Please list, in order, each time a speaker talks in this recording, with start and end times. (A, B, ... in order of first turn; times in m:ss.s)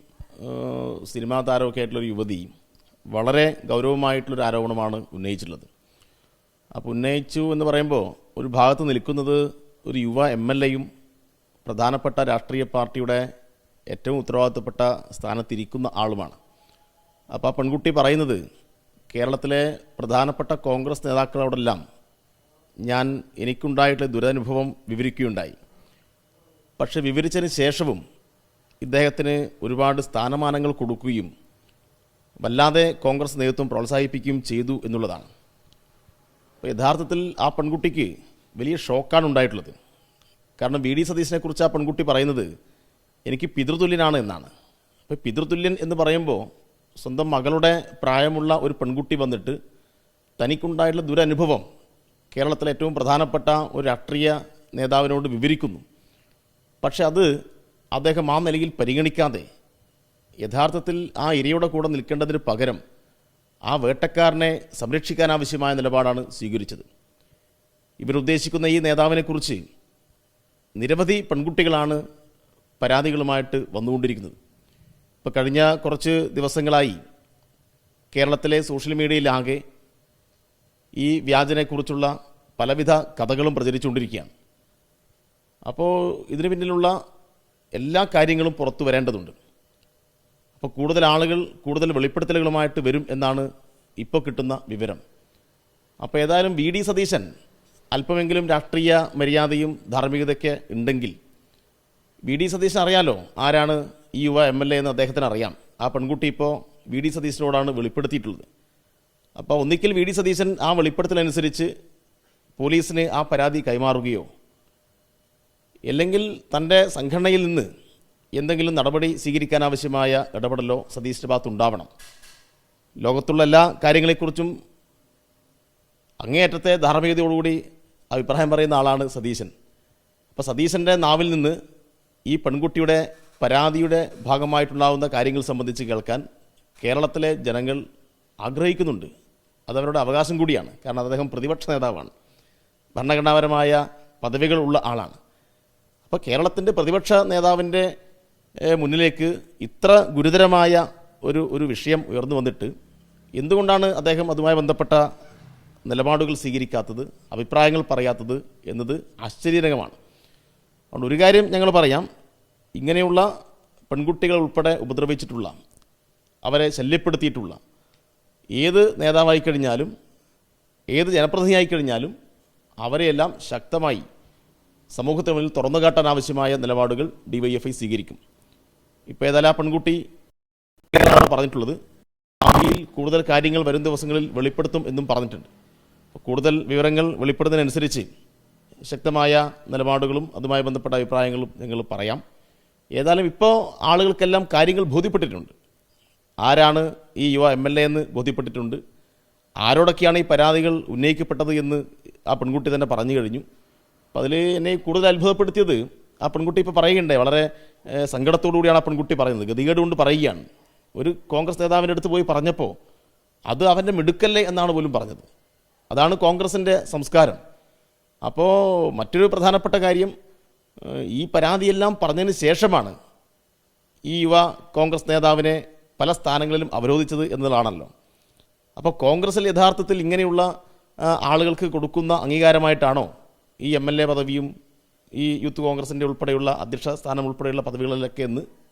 0:00.4-0:02.5 A
0:03.1-0:05.7 A
0:06.8-0:10.9 A
0:11.6-0:13.2 A
0:13.9-0:16.4 A
0:17.3-0:18.4 A
0:19.1-0:21.8 A
0:22.9-0:25.6 A
0:26.8-0:28.0 A
0:28.8-0:31.3 A
0:32.4-0:35.3 A
0:36.6-0:39.7 A
0:40.6-0:42.5 A
0:43.3-0:44.5 A
0:45.1-0:46.4 A
0:47.0-0:49.6 A
0:50.4-0:51.6 A
0:52.3-0:55.8 A
0:56.8-0:57.3 A
0:57.9-0:59.4 A
1:00.4-1:02.8 A
1:03.7-1:06.8 A
1:08.0-1:09.6 A
1:10.8-1:12.0 A
1:12.8-1:14.3 A
1:15.2-1:17.0 A
1:18.1-1:19.6 A
1:21.0-1:24.3 A
1:25.7-1:26.9 A
1:27.8-1:29.3 A
1:30.6-1:33.5 A
1:34.0-1:35.0 A
1:36.0-1:37.2 A
1:37.9-1:41.1 A
1:42.2-1:48.4 A
1:49.4-1:51.7 A
1:52.6-1:54.3 A
1:55.9-1:57.7 A
1:58.4-2:01.9 A
2:03.0-2:04.5 A
2:06.2-2:07.6 A
2:08.1-2:09.5 A
2:10.3-2:11.6 A
2:12.3-2:16.2 A
2:16.8-2:17.8 A
2:18.4-2:19.1 A
2:19.7-2:22.1 A
2:23.0-2:25.2 A
2:26.1-2:27.9 A
2:28.7-2:32.7 A
2:33.4-2:35.0 A
2:35.8-2:40.0 A
2:40.9-2:42.0 A
2:42.8-2:43.3 A
2:43.9-2:45.5 A
2:46.4-2:47.6 A
2:48.6-2:49.9 A
2:50.9-2:52.1 A
2:52.8-2:54.0 A
2:54.9-2:58.2 A
2:59.1-3:00.0 A
3:00.9-3:01.8 A
3:02.4-3:05.5 A
3:06.1-3:08.1 A
3:08.8-3:12.2 A
3:13.0-3:15.5 A
3:16.4-3:18.8 A
3:19.6-3:23.4 A
3:24.1-3:32.7 A
3:33.5-3:35.2 A
3:35.9-3:37.4 A
3:38.2-3:40.1 A
3:40.8-3:42.9 A
3:44.1-3:47.9 A
3:48.8-3:50.5 A
3:51.1-3:53.1 A
3:53.6-3:54.5 A
3:55.2-3:58.4 A